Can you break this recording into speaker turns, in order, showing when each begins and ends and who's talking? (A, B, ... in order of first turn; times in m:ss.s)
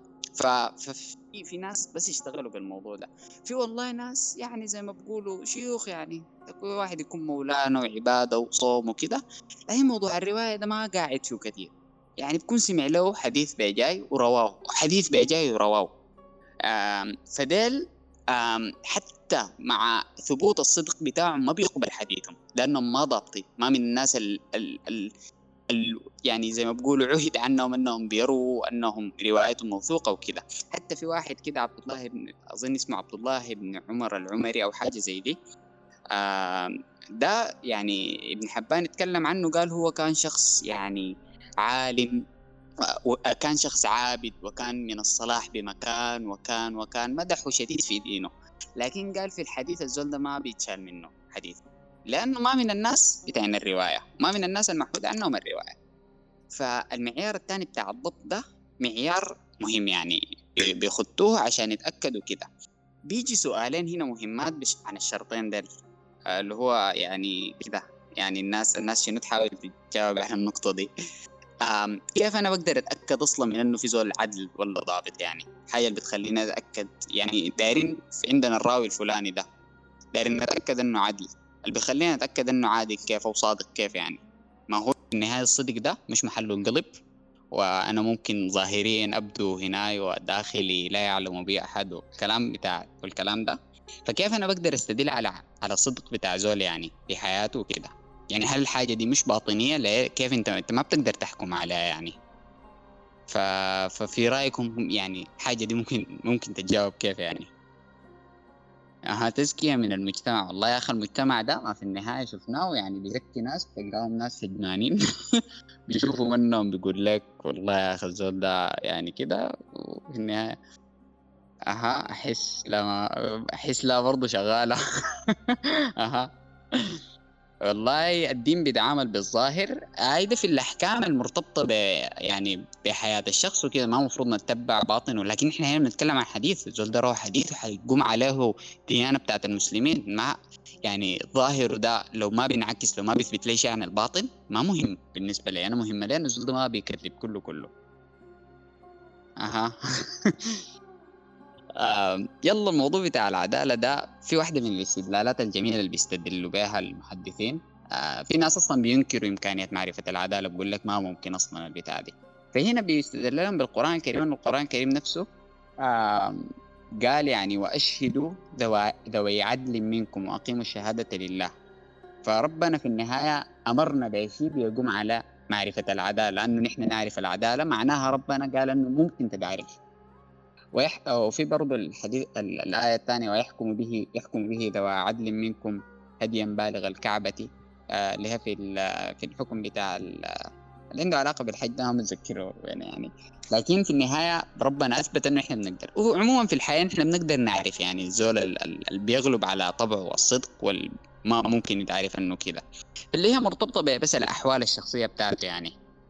0:00.4-0:15.9 A
0:16.7-0:17.8 A
0:18.3-0:25.1 A
0:25.7-0:35.4 A
0:36.1-0:41.0 A
0:41.6-0:42.1 A
0:43.1-0:51.6 A
0:52.1-0:55.8 A
0:56.6-1:02.5 A
1:03.1-1:05.6 A
1:06.3-1:10.9 A
1:11.6-1:19.4 A
1:20.1-1:26.9 A
1:27.6-1:42.2 A
1:43.3-1:47.5 A
1:49.1-1:59.4 A
2:00.1-2:00.5 A
2:01.7-2:03.0 A
2:03.6-2:04.8 A
2:05.5-2:06.8 A
2:07.7-2:11.8 A
2:12.3-2:27.7 A
2:29.4-2:29.7 A
2:30.2-2:30.6 A
2:31.8-2:45.2 A
2:45.8-2:46.5 A
2:47.0-2:51.5 A
2:52.2-2:59.7 A
3:00.8-3:10.4 A
3:11.0-3:22.6 A
3:23.1-3:25.7 A